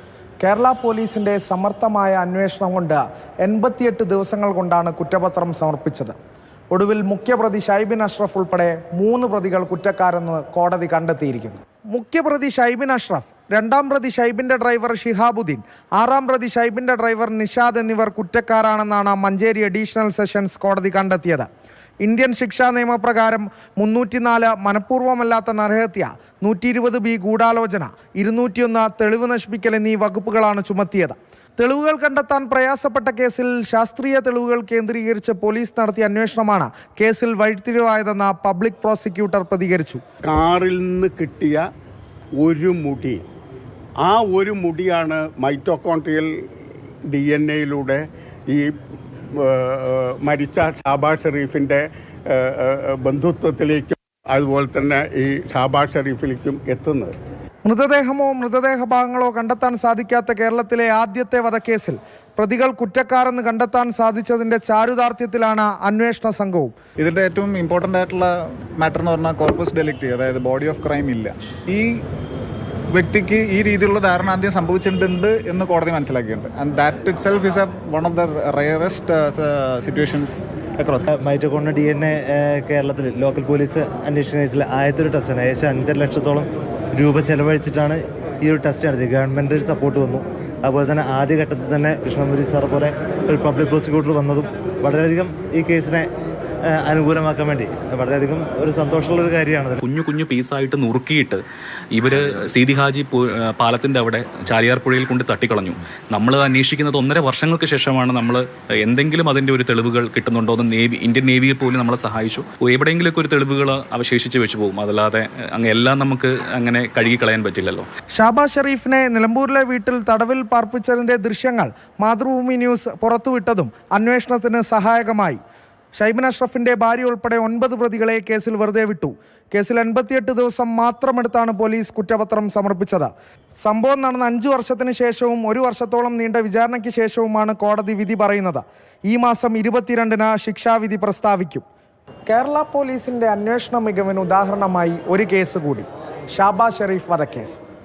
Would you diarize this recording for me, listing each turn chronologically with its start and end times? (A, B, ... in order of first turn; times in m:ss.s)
0:00.4-0:06.1 A
0:06.7-0:21.5 A
0:22.0-0:40.0 A
0:40.2-0:41.6 B
0:42.4-0:43.2 B
0:44.0-0:46.3 B
0:47.1-0:48.7 B
0:49.3-0:57.2 B
0:57.6-1:06.7 A
1:07.0-1:12.0 C
1:12.9-1:21.0 C
1:21.1-1:36.1 D
1:36.7-1:39.8 D
1:39.8-1:41.4 E
1:41.9-1:57.8 E
1:58.1-2:05.4 A
2:06.0-2:13.1 A
2:13.6-2:21.6 A
2:22.3-2:27.6 A